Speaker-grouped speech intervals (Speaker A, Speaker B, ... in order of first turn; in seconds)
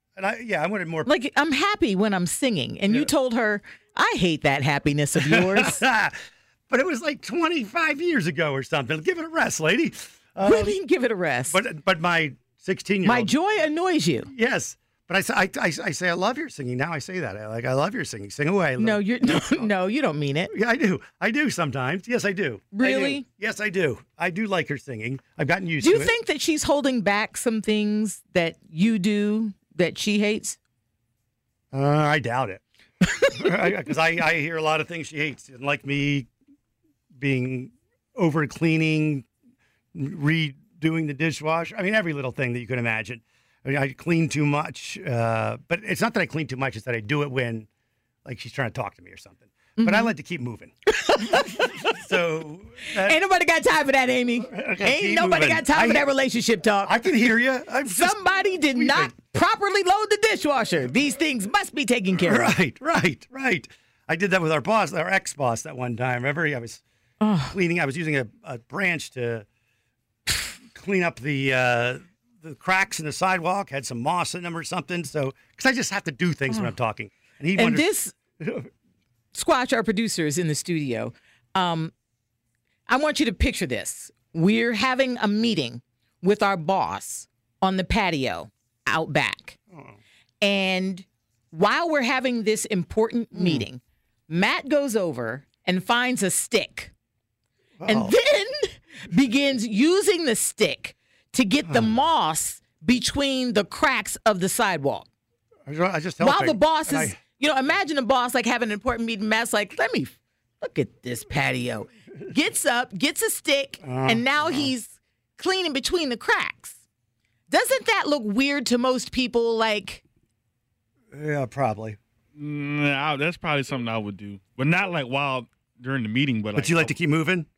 Speaker A: 0.2-1.1, 5.2-6.2, 6.7-10.8, 11.5-13.3, 14.3-19.7, 20.5-26.1, 31.7-32.6, 33.3-36.3, 37.2-39.3, 39.9-47.7, 48.2-50.7, 51.4-53.2, 54.4-56.1, 56.8-59.1, 62.2-66.8, 67.5-69.5, 70.7-77.9, 78.4-78.7, 93.3-93.7, 97.8-98.2, 101.7-102.0, 105.7-107.2, 113.8-114.7, 121.1-122.0, 126.5-127.5
Speaker B: 1.1-5.8, 10.4-11.6, 13.0-14.3, 18.8-20.5, 22.7-23.2, 25.8-30.6, 49.8-50.1, 50.9-52.0, 53.0-57.0, 57.9-62.6, 67.2-67.6, 77.5-78.2, 79.3-81.9, 82.9-89.6, 90.4-96.9, 97.9-105.1, 106.2-116.8, 117.5-120.0
Speaker C: 122.4-127.0